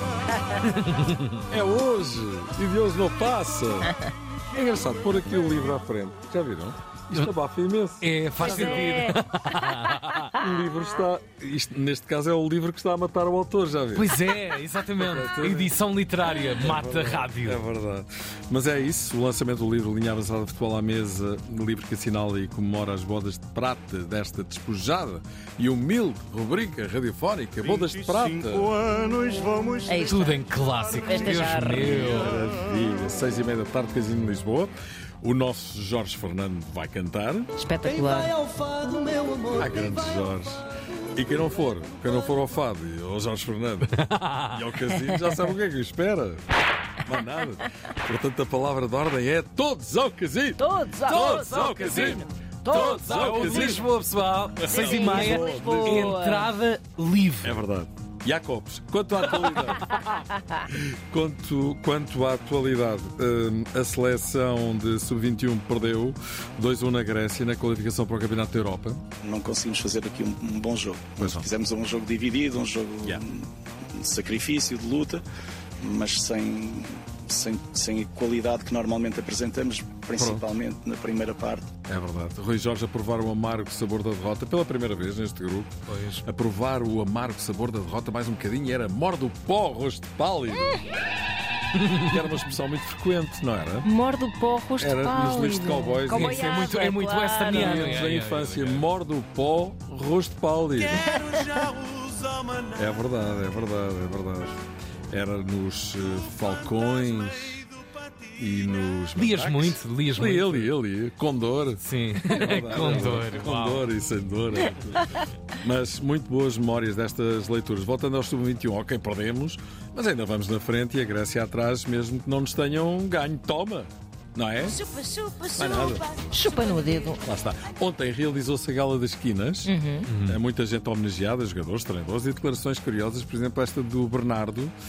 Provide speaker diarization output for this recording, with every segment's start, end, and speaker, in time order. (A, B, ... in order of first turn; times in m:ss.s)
0:01.5-0:03.9 A
0:04.5-0:08.8 A
0:08.0-0:10.3 B
0:08.4-0:09.2 C
0:10.4-0:14.2 A
0:13.9-0:17.6 B
0:15.0-0:15.7 A
0:16.4-0:28.8 A
0:27.6-0:30.1 D
0:29.9-0:30.4 C
0:30.1-0:32.3 B
0:30.8-0:31.1 D
0:31.0-0:31.9 C
0:31.7-0:37.5 A
0:37.6-0:38.3 C
0:39.5-0:40.6 A
0:41.1-0:46.4 A
0:47.0-0:53.8 A
0:50.6-0:53.8 C
0:52.7-0:57.5 B
0:54.6-0:56.2 A
0:54.7-0:56.5 C
0:57.4-1:00.0 A
1:00.7-1:09.0 A
1:09.2-1:15.2 E
1:11.2-1:11.5 A
1:15.8-1:21.7 E
1:20.2-1:20.4 A
1:21.8-1:30.8 A
1:25.9-1:26.2 B
1:31.9-1:33.9 A
1:33.8-1:38.0 C
1:34.8-1:36.7 A
1:36.1-1:38.8 B
1:37.5-1:41.1 A
1:41.0-1:41.6 C
1:42.7-1:44.6 A
1:45.1-1:47.7 A
1:48.4-2:04.8 A
1:49.2-1:50.7 B
1:51.8-1:53.8 B
2:04.6-2:07.2 C
2:05.5-2:06.2 A
2:07.2-2:09.7 A
2:09.6-2:10.1 C
2:10.1-2:10.4 B
2:10.2-2:14.7 A